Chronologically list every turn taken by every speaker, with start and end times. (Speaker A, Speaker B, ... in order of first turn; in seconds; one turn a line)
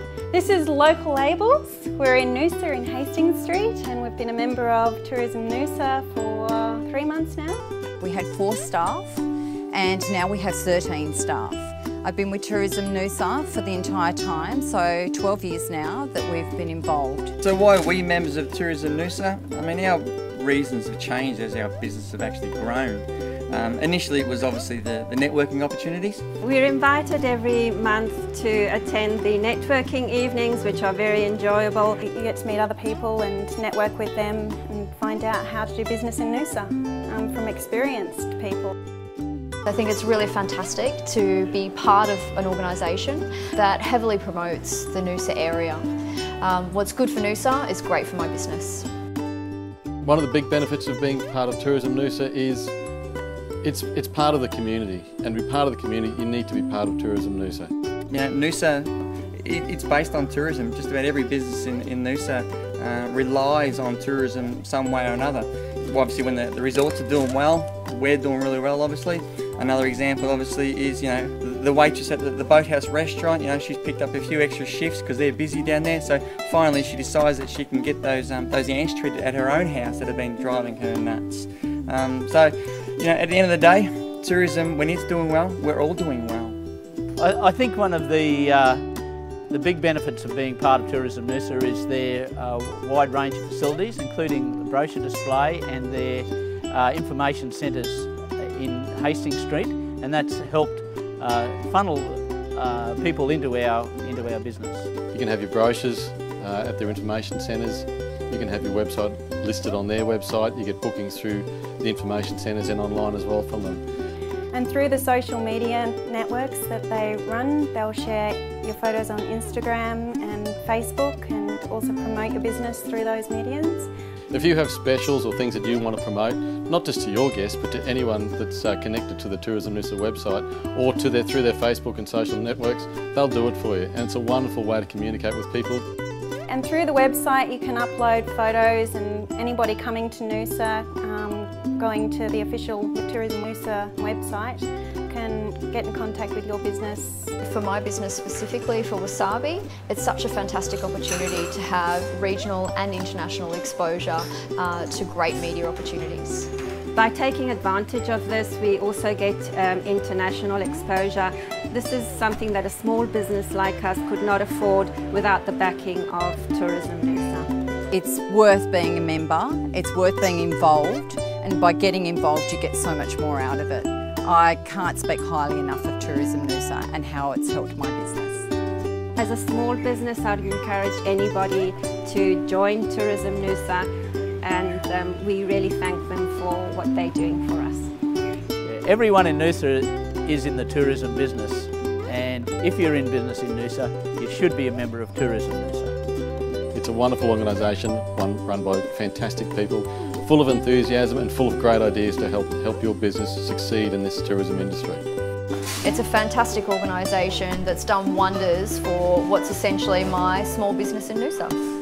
Speaker A: 0.3-7.6
Speaker B: 8.0-17.4
Speaker C: 17.4-26.2
Speaker D: 26.4-32.0
Speaker A: 32.0-38.7
Speaker E: 39.7-45.9
Speaker E: 46.4-48.9
Speaker F: 50.0-52.7
Speaker F: 53.6-57.7
Speaker C: 58.1-86.6
Speaker G: 87.2-88.8
Speaker G: 89.5-104.9
Speaker F: 105.1-113.8
Speaker A: 114.5-123.9
Speaker F: 124.3-135.8
Speaker A: 136.5-147.3
Speaker E: 147.4-156.5
Speaker D: 156.9-167.5
Speaker B: 167.9-178.5
Speaker D: 179.2-187.9
Speaker G: 188.6-195.9
Speaker F: 196.7-205.0
Speaker E: 205.8-211.6